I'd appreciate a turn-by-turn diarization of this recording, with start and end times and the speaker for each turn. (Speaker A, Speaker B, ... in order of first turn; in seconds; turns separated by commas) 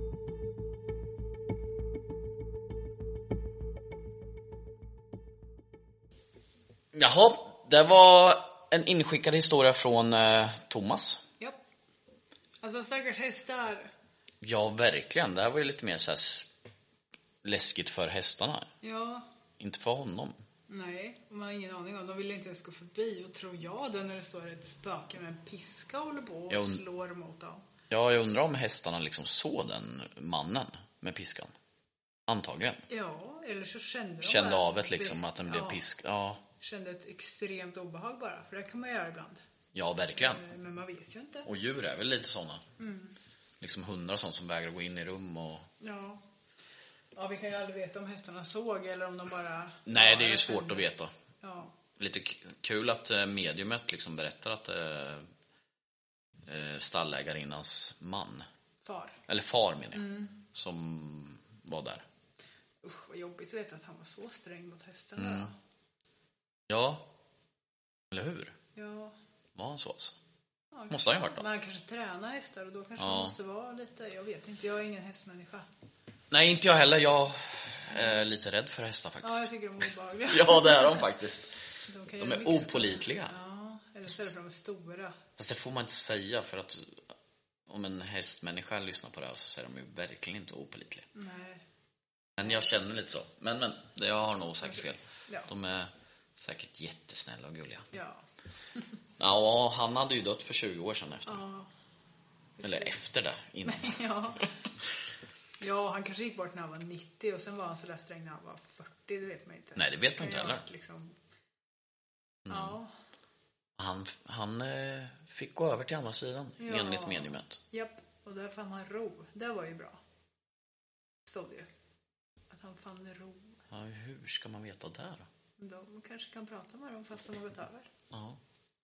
Speaker A: 6.9-11.2, Speaker B: 12.6-13.9, Speaker A: 14.4-16.5, Speaker A: 17.4-18.7, Speaker B: 18.8-19.3, Speaker A: 19.6-20.4, Speaker B: 20.7-27.6, Speaker A: 26.5-26.8, Speaker A: 27.9-31.5, Speaker A: 32.3-32.8, Speaker B: 32.9-35.8, Speaker A: 34.2-36.4, Speaker B: 36.6-39.4, Speaker A: 39.7-40.4, Speaker B: 40.1-41.5, Speaker A: 41.4-42.6, Speaker B: 42.8-43.1, Speaker A: 43.6-45.7, Speaker B: 45.8-46.2, Speaker B: 47.1-50.9, Speaker A: 49.9-51.1, Speaker B: 51.4-51.7, Speaker A: 52.0-55.2, Speaker A: 56.5-58.5, Speaker B: 58.8-59.2, Speaker A: 59.3-62.0, Speaker B: 59.9-60.3, Speaker B: 62.8-65.5, Speaker A: 65.2-65.5, Speaker A: 66.7-67.1, Speaker A: 68.1-68.5, Speaker B: 68.7-69.2, Speaker A: 69.5-70.2, Speaker B: 70.7-75.7, Speaker A: 70.9-71.4, Speaker A: 73.0-73.3, Speaker A: 76.3-79.5, Speaker B: 77.9-78.2, Speaker B: 79.2-81.0, Speaker A: 80.3-81.5, Speaker B: 81.9-85.2, Speaker A: 82.2-83.3, Speaker A: 85.4-87.0, Speaker A: 87.7-91.1, Speaker B: 91.1-91.6, Speaker A: 92.4-97.9, Speaker B: 92.4-92.7, Speaker B: 94.7-95.5, Speaker B: 97.9-98.2, Speaker A: 99.2-101.4, Speaker B: 101.3-101.7, Speaker B: 102.6-102.9, Speaker A: 102.6-104.0, Speaker B: 103.7-104.5, Speaker B: 105.6-111.1, Speaker A: 109.8-110.6, Speaker A: 112.5-112.8, Speaker B: 112.5-112.9, Speaker A: 113.8-117.6, Speaker B: 116.6-120.0, Speaker B: 121.3-121.7, Speaker B: 122.5-123.5, Speaker A: 123.7-125.3, Speaker B: 125.6-127.9, Speaker A: 128.1-128.4